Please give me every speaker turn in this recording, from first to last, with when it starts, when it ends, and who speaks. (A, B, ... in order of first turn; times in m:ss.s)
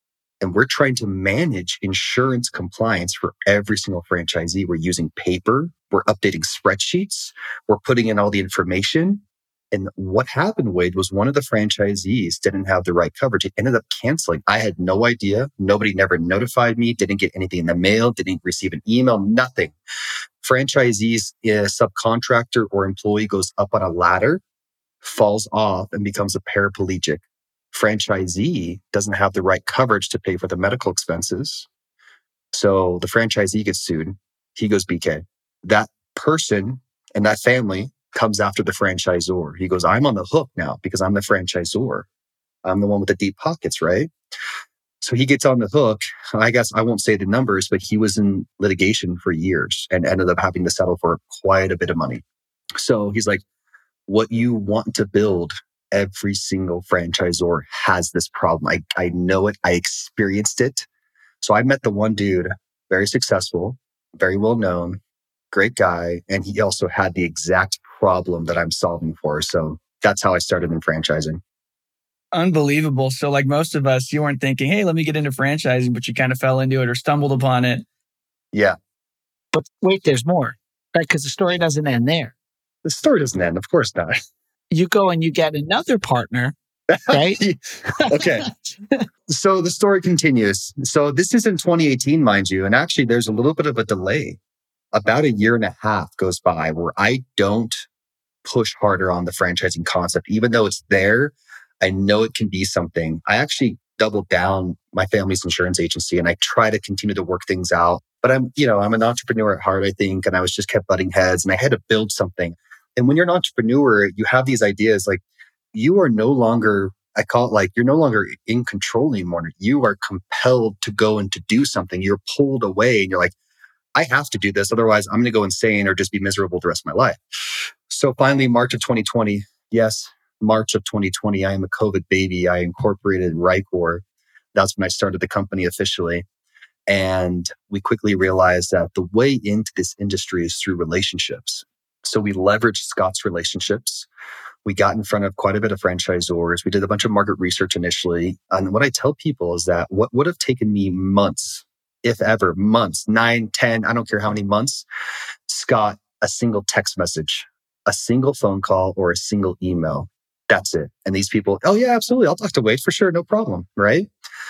0:00.4-0:19.7 A
0:20.4-0:24.4 A
0:25.0-0:31.7 A
0:32.5-0:42.1 A
0:42.6-0:44.1 A
0:45.0-0:52.2 A
0:52.8-0:53.4 A
0:54.1-1:00.9 A
1:01.4-1:05.0 A
1:05.5-1:11.4 A
1:12.3-1:17.8 B
1:19.5-1:22.3 C
1:22.8-1:24.2 A
1:24.7-1:26.5 C
1:26.9-1:28.5 A
1:27.1-1:27.4 C
1:28.0-1:28.5 C
1:29.3-1:34.4 A
1:34.9-1:37.8 A
1:38.4-1:55.2 A
1:55.7-2:03.3 A
2:04.0-2:07.2 A
2:07.9-2:14.0 A
2:14.6-2:16.2 A
2:16.9-2:24.1 A
2:24.6-2:34.8 A
2:35.5-2:44.1 A